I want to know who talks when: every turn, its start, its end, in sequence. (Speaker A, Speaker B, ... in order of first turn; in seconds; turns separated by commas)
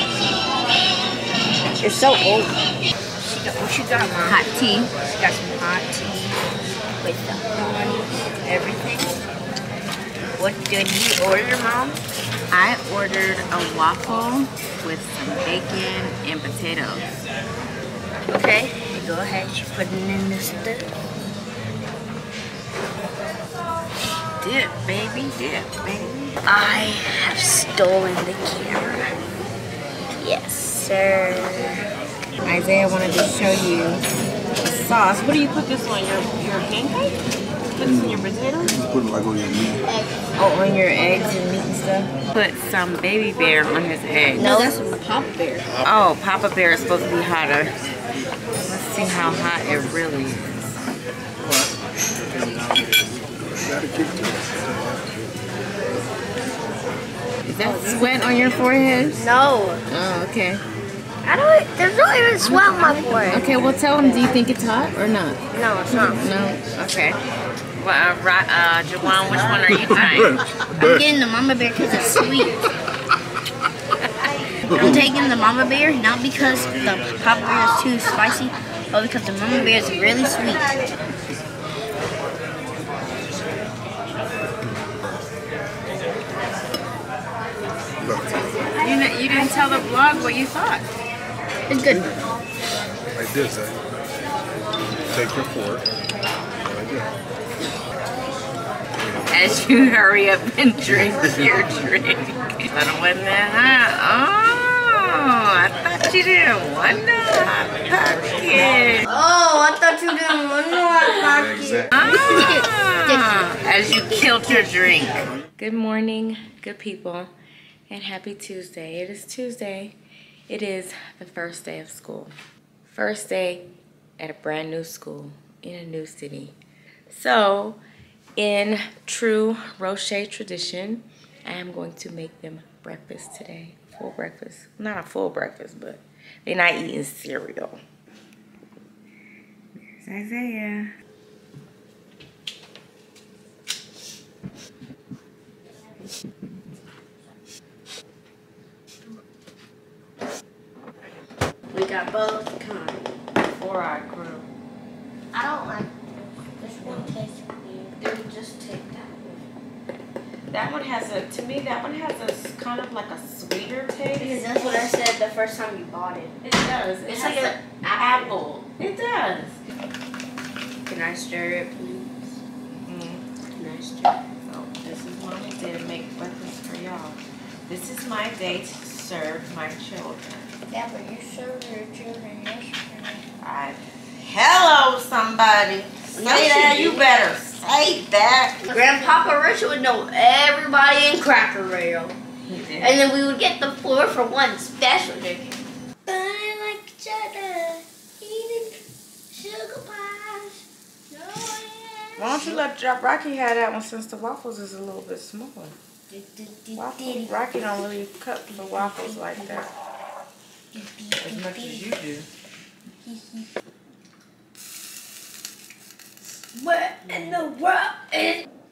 Speaker A: 1.7-2.6, Speaker A: 3.2-4.4, Speaker B: 4.2-4.9, Speaker A: 5.0-6.4, Speaker A: 7.0-9.2, Speaker A: 10.4-12.0, Speaker B: 12.5-17.0, Speaker A: 18.3-20.9, Speaker B: 24.4-26.4, Speaker A: 26.4-29.1, Speaker A: 30.2-31.8, Speaker B: 32.5-37.2, Speaker B: 37.7-38.8, Speaker C: 38.8-39.8, Speaker A: 39.8-40.1, Speaker B: 40.4-44.7, Speaker A: 44.4-45.7, Speaker B: 45.8-47.7, Speaker B: 48.6-50.7, Speaker C: 51.4-55.5, Speaker B: 57.4-59.2, Speaker A: 59.2-59.8, Speaker B: 59.9-60.6, Speaker A: 61.2-63.5, Speaker B: 62.4-65.4, Speaker A: 65.5-66.2, Speaker B: 66.1-67.2, Speaker B: 67.8-70.4, Speaker C: 70.7-71.0, Speaker A: 70.8-72.5, Speaker A: 74.7-80.8, Speaker C: 88.0-88.6, Speaker B: 88.8-90.8, Speaker A: 91.7-92.1, Speaker C: 93.2-93.8, Speaker C: 95.0-95.8, Speaker C: 96.6-97.1, Speaker B: 99.3-109.1, Speaker A: 109.0-113.5, Speaker B: 111.9-117.3, Speaker B: 117.9-119.9, Speaker B: 120.5-122.3, Speaker B: 122.8-123.7, Speaker B: 124.2-126.5, Speaker B: 127.1-127.8, Speaker B: 128.4-137.8, Speaker B: 139.8-140.9, Speaker A: 151.7-153.1, Speaker B: 153.4-154.5, Speaker A: 155.3-159.4, Speaker B: 160.5-164.9, Speaker A: 164.2-166.3, Speaker B: 166.4-169.6, Speaker A: 167.1-168.3, Speaker A: 170.8-172.4, Speaker B: 172.8-173.2, Speaker A: 173.5-174.2, Speaker B: 174.4-180.5, Speaker A: 180.7-183.2, Speaker B: 183.4-188.6, Speaker A: 186.1-187.1, Speaker A: 188.7-192.2, Speaker B: 192.5-193.0, Speaker A: 192.8-198.8, Speaker A: 199.3-202.6, Speaker B: 202.2-205.7, Speaker A: 206.1-207.3, Speaker B: 206.8-209.7, Speaker A: 208.8-209.6, Speaker A: 210.7-211.8, Speaker B: 211.1-212.2, Speaker A: 213.0-213.5, Speaker A: 216.5-218.4